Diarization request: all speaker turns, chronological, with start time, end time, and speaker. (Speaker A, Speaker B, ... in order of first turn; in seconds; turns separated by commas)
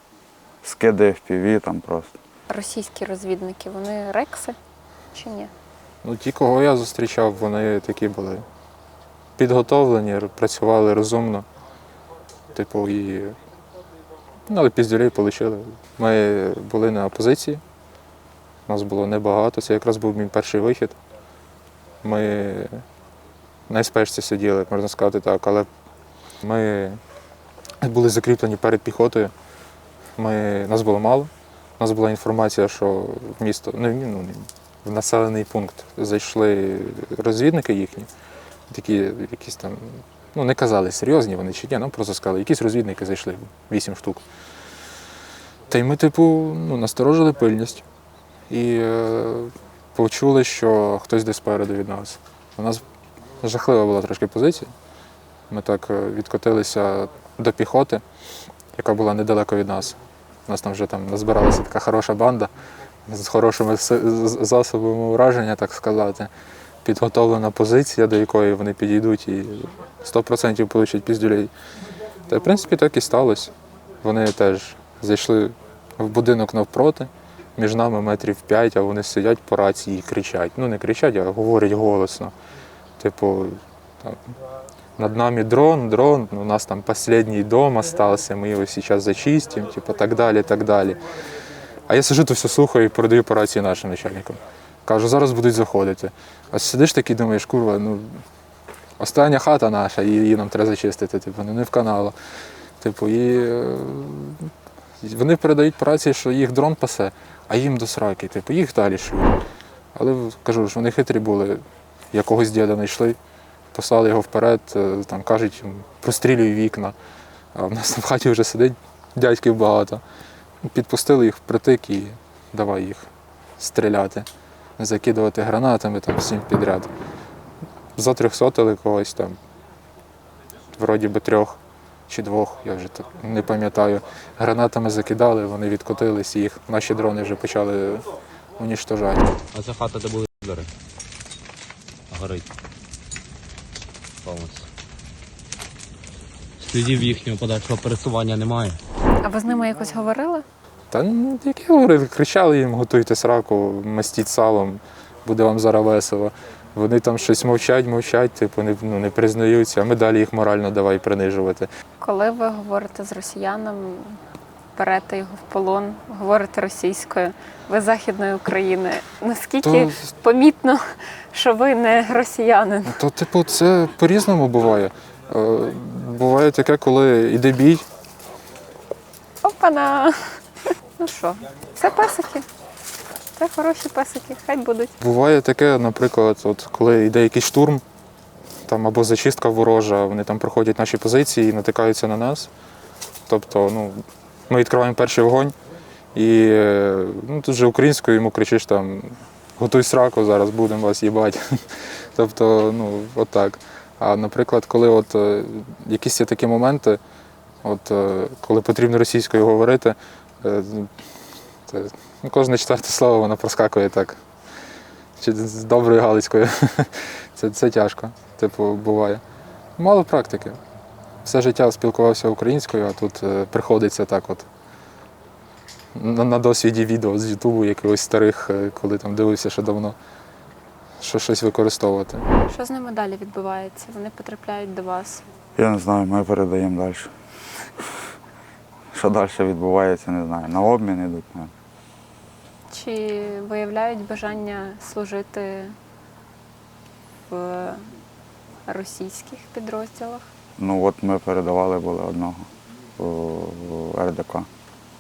Speaker A: 0.6-2.2, Speaker B: 2.5-4.6, Speaker B: 5.1-5.5, Speaker C: 6.0-8.5, Speaker C: 9.4-11.5, Speaker C: 12.5-13.4, Speaker C: 14.5-17.6, Speaker C: 18.7-21.0, Speaker C: 22.0-22.8, Speaker C: 23.7-25.7, Speaker C: 26.4-27.0, Speaker C: 27.8-29.3, Speaker C: 30.2-38.1, Speaker C: 38.7-44.2, Speaker C: 45.7-47.8, Speaker C: 48.5-52.8, Speaker C: 53.4-54.7, Speaker C: 55.5-58.0, Speaker C: 58.7-62.5, Speaker C: 63.1-66.3, Speaker C: 66.8-71.5, Speaker C: 72.3-82.3, Speaker C: 83.0-84.3, Speaker C: 85.0-91.0, Speaker C: 91.9-98.2, Speaker C: 99.0-102.2, Speaker C: 102.8-104.5, Speaker C: 105.0-109.3, Speaker C: 109.9-113.2, Speaker C: 113.7-117.0, Speaker C: 117.5-120.0, Speaker C: 120.7-124.3, Speaker C: 124.8-126.9, Speaker C: 128.0-129.4, Speaker C: 130.7-139.3, Speaker D: 139.5-140.7, Speaker D: 142.1-142.5, Speaker D: 144.2-144.7, Speaker D: 146.6-148.8, Speaker B: 149.2-150.4, Speaker C: 150.9-161.7, Speaker B: 162.0-164.2, Speaker B: 164.8-173.0, Speaker C: 169.6-170.0, Speaker C: 172.9-177.8, Speaker B: 179.4-182.5, Speaker B: 183.4-184.9, Speaker C: 185.0-187.8, Speaker C: 188.7-192.5, Speaker C: 193.3-195.6, Speaker C: 196.2-207.0, Speaker C: 207.6-211.0, Speaker C: 211.7-214.2, Speaker C: 215.2-219.2, Speaker C: 219.8-220.6, Speaker C: 221.2-224.5, Speaker C: 225.9-230.0, Speaker C: 231.0-232.3, Speaker B: 232.5-235.2, Speaker A: 235.6-237.1, Speaker A: 238.9-241.5, Speaker B: 242.7-245.8, Speaker B: 247.3-247.9, Speaker B: 248.7-250.3, Speaker A: 250.6-254.5